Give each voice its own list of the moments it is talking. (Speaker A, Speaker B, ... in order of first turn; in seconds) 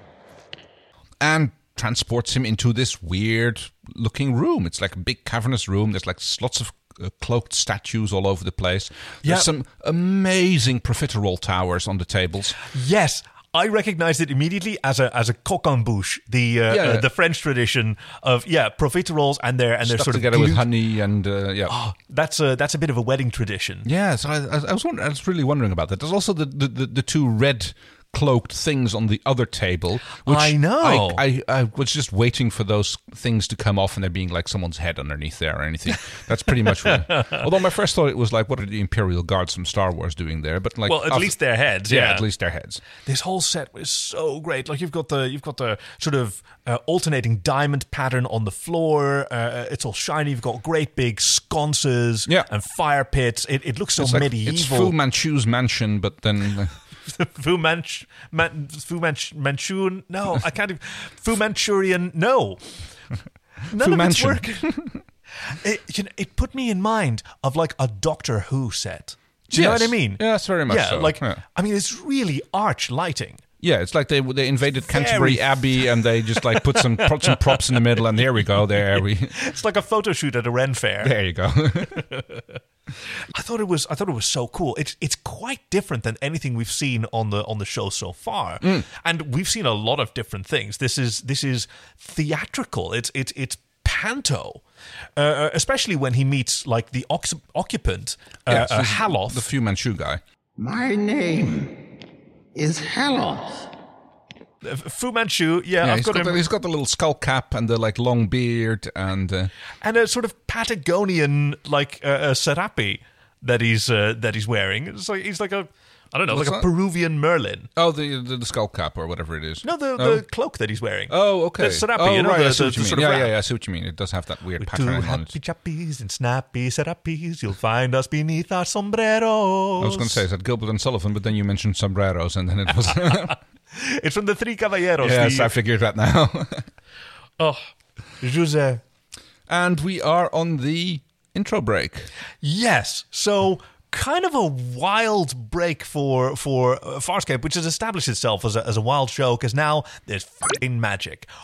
Speaker A: 1.2-12.6, 16.7-17.1, 19.8-21.8, 23.8-42.8, 54.0-56.7, 63.8-65.0, 69.5-71.4, 73.6-79.3, 81.0-82.0, 98.5-100.2, 105.8-109.5, 116.3-116.7, 117.8-120.2, 121.1-125.3, 129.8-133.4, 135.0-136.7, 139.5-142.1
Speaker B: 9.2-9.5, 12.6-20.6, 21.7-23.9, 30.2-31.2, 36.9-37.4, 40.9-42.2, 43.0-54.9, 57.1-62.6, 63.7-64.8, 65.5-73.4, 74.8-81.1, 82.0-82.4, 83.3-94.6, 95.2-99.4, 104.6-106.4, 109.8-117.7, 119.6-123.3, 124.6-130.2, 133.7-135.5, 138.2-138.8, 142.4-151.3
Speaker C: 100.6-101.8, 102.5-103.6